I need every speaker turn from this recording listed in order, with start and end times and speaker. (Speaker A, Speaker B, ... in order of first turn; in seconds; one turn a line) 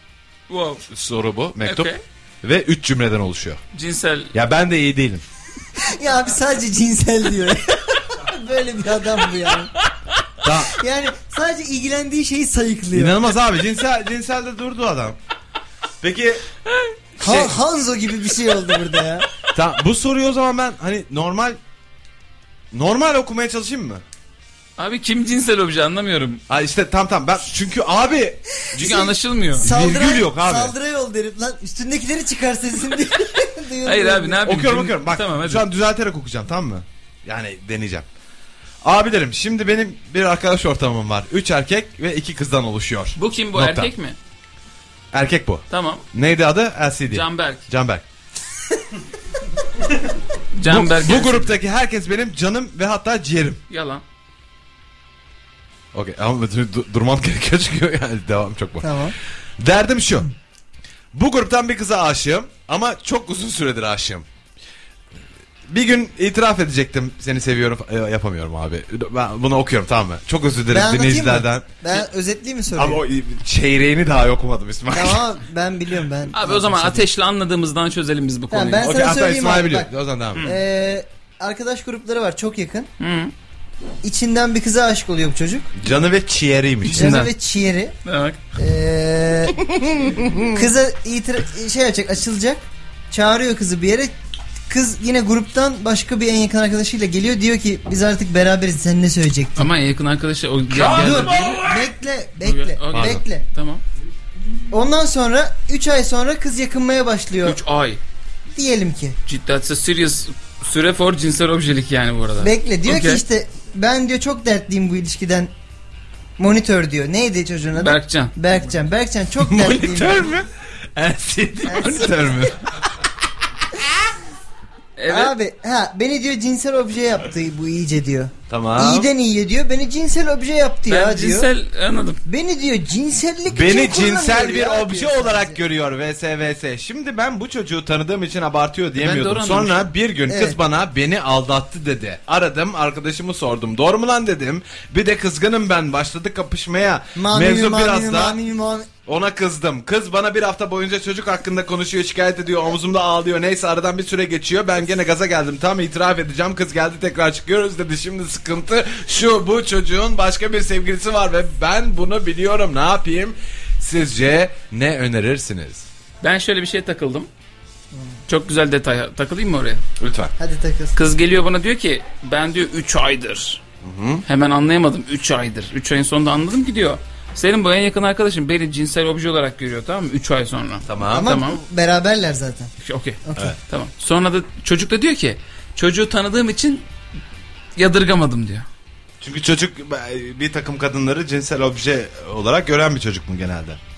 Speaker A: 0.5-0.8
Speaker B: 0.9-1.9
Speaker A: 1.6-2.0
Speaker B: 2.4-3.6
Speaker A: 3.7-4.3
Speaker B: 4.3-5.2
Speaker C: 5.8-9.7
Speaker B: 10.4-10.8
Speaker C: 10.7-13.2
Speaker B: 12.9-15.2
Speaker B: 16.0-16.4
Speaker B: 17.2-17.6
Speaker C: 17.2-19.3
Speaker B: 19.5-21.6
Speaker B: 22.7-24.0
Speaker A: 24.8-26.4
Speaker B: 26.5-30.7
Speaker A: 28.8-29.7
Speaker C: 29.6-34.4
Speaker A: 33.8-35.6
Speaker B: 34.4-38.0
Speaker B: 38.8-43.9
Speaker A: 43.1-44.2
Speaker B: 45.1-48.0
Speaker A: 45.7-46.0
Speaker A: 47.1-47.6
Speaker A: 50.5-51.5
Speaker B: 50.7-53.6
Speaker A: 53.7-54.0
Speaker B: 55.9-59.0
Speaker C: 58.8-59.1
Speaker B: 59.6-60.3
Speaker B: 61.1-64.2
Speaker B: 65.7-71.7
Speaker C: 70.7-73.0
Speaker B: 72.7-75.3
Speaker C: 74.9-77.0
Speaker A: 76.3-78.9
Speaker C: 78.5-82.9
Speaker B: 78.8-80.4
Speaker A: 83.0-83.3
Speaker C: 84.0-85.7
Speaker B: 85.8-87.2
Speaker A: 86.9-87.3
Speaker C: 86.9-87.9
Speaker A: 88.0-88.4
Speaker C: 88.5-94.1
Speaker C: 94.7-99.7
Speaker A: 99.6-101.6
Speaker B: 100.7-101.9
Speaker C: 100.8-103.4
Speaker A: 102.4-103.8
Speaker B: 102.9-103.2
Speaker C: 104.7-107.6
Speaker A: 107.4-108.0
Speaker C: 108.5-109.2
Speaker A: 109.2-113.2
Speaker C: 112.4-115.5
Speaker C: 116.4-120.3
Speaker A: 117.8-118.3
Speaker B: 119.4-122.9
Speaker C: 121.7-122.3
Speaker A: 125.0-125.3
Speaker C: 125.1-131.5
Speaker B: 128.5-129.1
Speaker A: 130.9-132.2
Speaker C: 132.2-135.6
Speaker B: 133.5-148.4
Speaker A: 139.0-139.9
Speaker C: 140.3-140.6
Speaker C: 147.2-148.9
Speaker B: 149.1-165.8
Speaker A: 166.2-167.3
Speaker C: 167.9-168.2
Speaker A: 168.3-169.8
Speaker B: 170.0-170.3
Speaker C: 170.4-170.9
Speaker A: 170.9-173.6
Speaker B: 173.8-174.2
Speaker A: 174.2-181.6
Speaker B: 180.9-181.3
Speaker C: 181.0-182.7
Speaker A: 182.8-186.8
Speaker C: 183.2-183.6
Speaker A: 187.8-188.7
Speaker B: 189.2-193.8